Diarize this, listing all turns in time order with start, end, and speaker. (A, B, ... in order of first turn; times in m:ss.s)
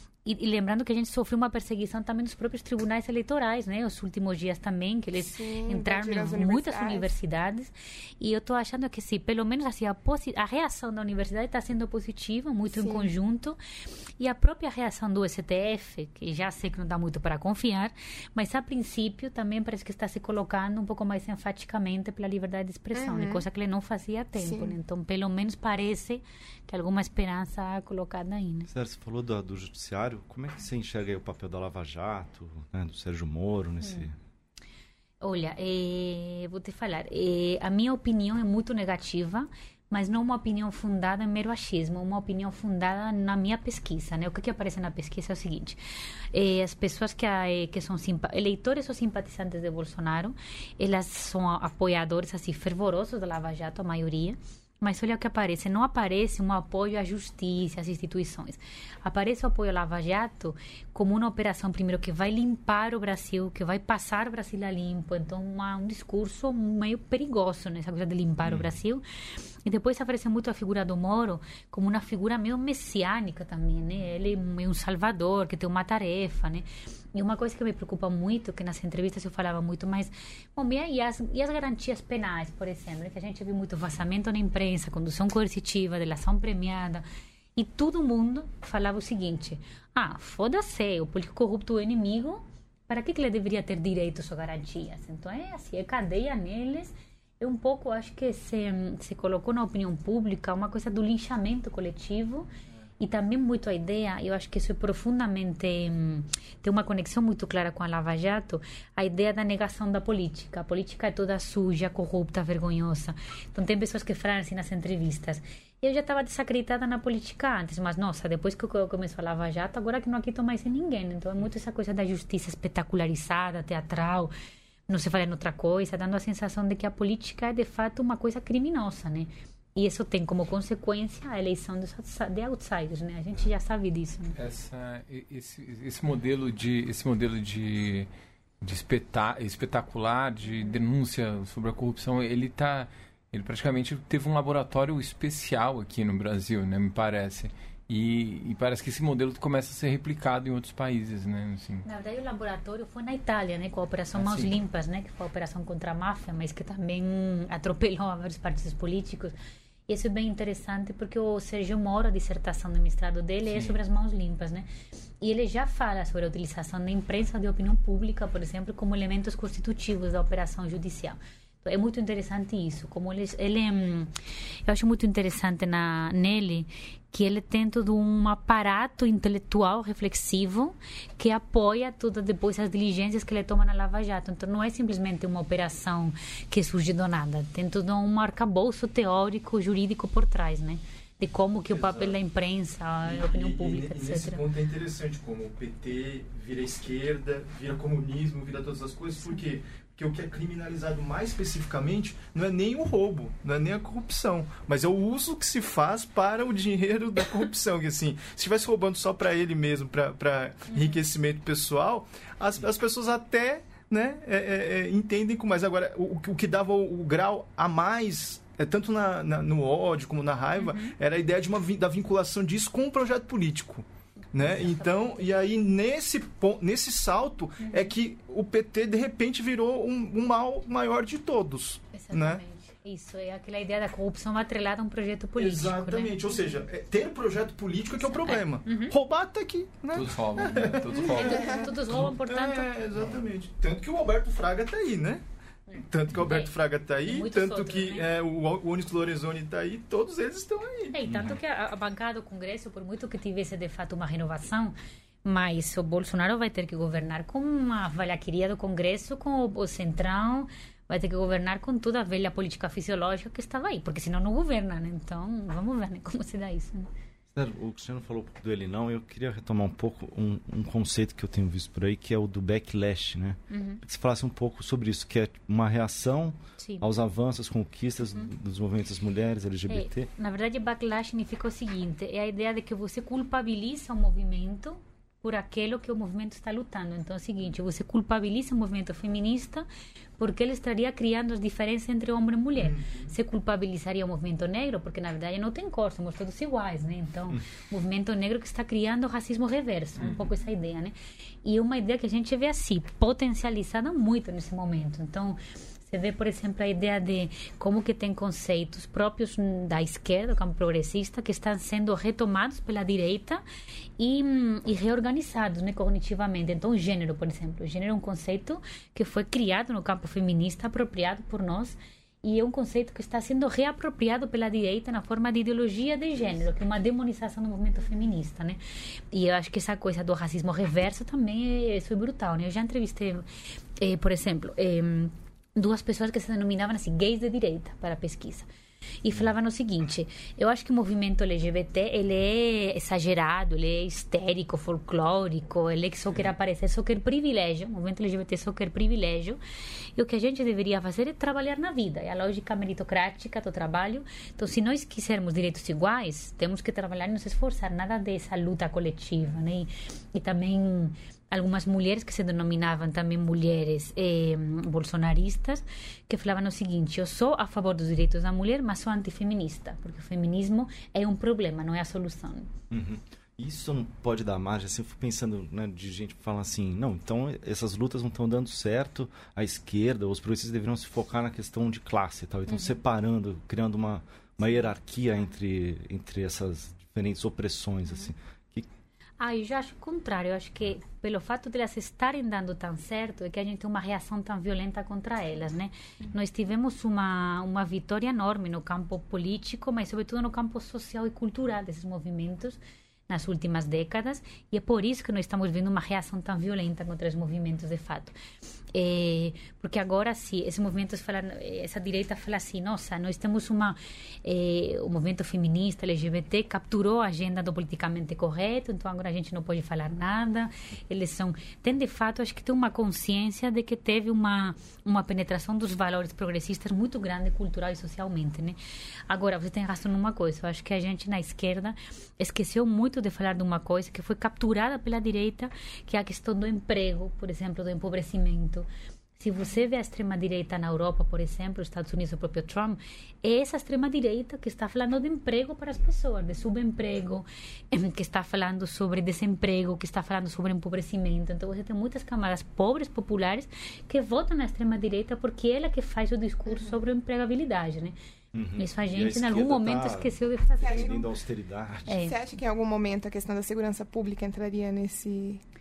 0:00.2-0:13.6 A
0:05.2-0:07.1 B
0:12.7-0:13.1 B
0:14.2-0:28.7 A
0:22.9-0:23.4 B
0:24.4-0:24.8 B
0:28.7-0:34.2 C
0:35.2-0:45.8 A
0:46.3-1:09.0 A
1:09.6-1:42.5 A
1:43.0-2:04.3 A
2:04.9-2:14.4 A
2:14.4-2:18.1 D
2:18.6-2:31.9 D
2:31.8-2:39.4 A
2:34.2-2:34.5 D
2:39.9-2:44.7 A
2:43.5-2:43.8 D
2:45.2-2:54.1 A
2:54.7-3:14.4 A
3:11.7-3:12.2 E
3:13.0-3:52.4 E
3:40.6-3:40.9 A
3:44.3-3:45.3 A
3:47.6-3:47.9 A
3:51.9-3:56.3 A
3:55.4-4:05.2 E
3:58.0-3:59.0 A
3:59.9-4:01.7 D
4:01.0-4:01.6 B
4:01.1-4:02.7 A
4:05.7-4:06.5 A
4:05.8-4:11.0 E
4:07.0-4:08.1 A
4:10.9-4:26.9 A
4:11.1-4:11.4 C
4:27.3-4:40.1 C
4:33.5-4:33.8 A
4:36.6-4:36.9 A
4:39.7-4:49.7 A
4:50.2-5:13.4 A
4:52.6-4:53.1 E
5:00.0-5:00.2 D
5:14.0-5:28.6 A
5:29.1-5:33.2 A
5:33.8-5:38.5 A
5:39.0-5:49.4 A
5:50.0-6:12.5 A
6:12.7-6:28.7 C
6:22.5-6:22.8 A
6:29.2-6:48.2 A
6:48.7-7:08.6 A
7:09.1-7:18.7 A
7:19.2-7:38.0 A
7:38.3-7:42.0 C
7:38.6-7:41.1 A
7:40.6-7:41.0 B
7:41.9-7:42.2 A
7:41.9-7:45.4 B